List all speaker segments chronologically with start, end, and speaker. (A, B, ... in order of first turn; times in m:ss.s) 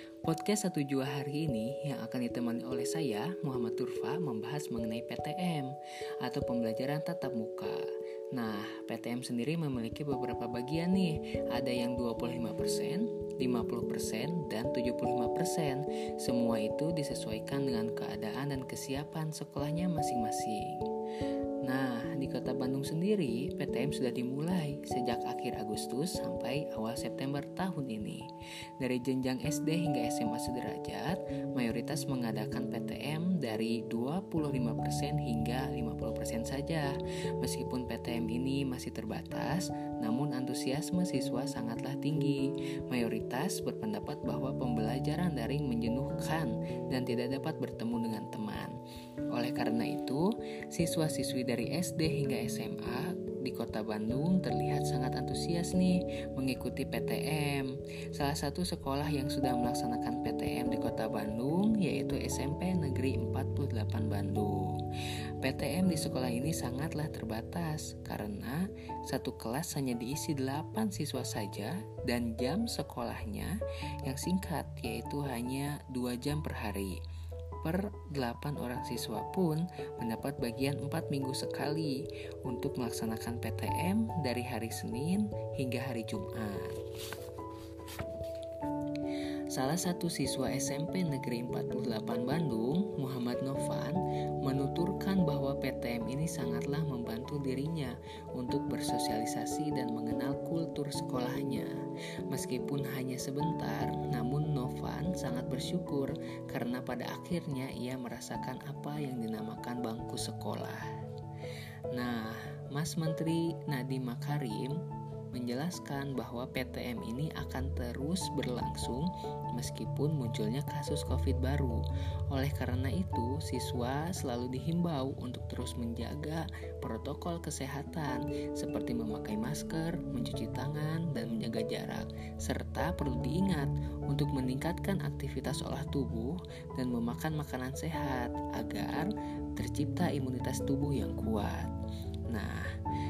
0:00.2-0:20.9 A
0:21.6-0:28.3 A
0:28.8-0:48.8 A
0:49.3-1:04.8 A
1:05.4-1:17.0 A
1:17.6-1:26.8 A
1:29.5-1:41.7 A
1:42.3-1:50.9 A
1:51.9-1:54.8 A
1:55.3-2:21.7 A
2:22.3-2:22.7 A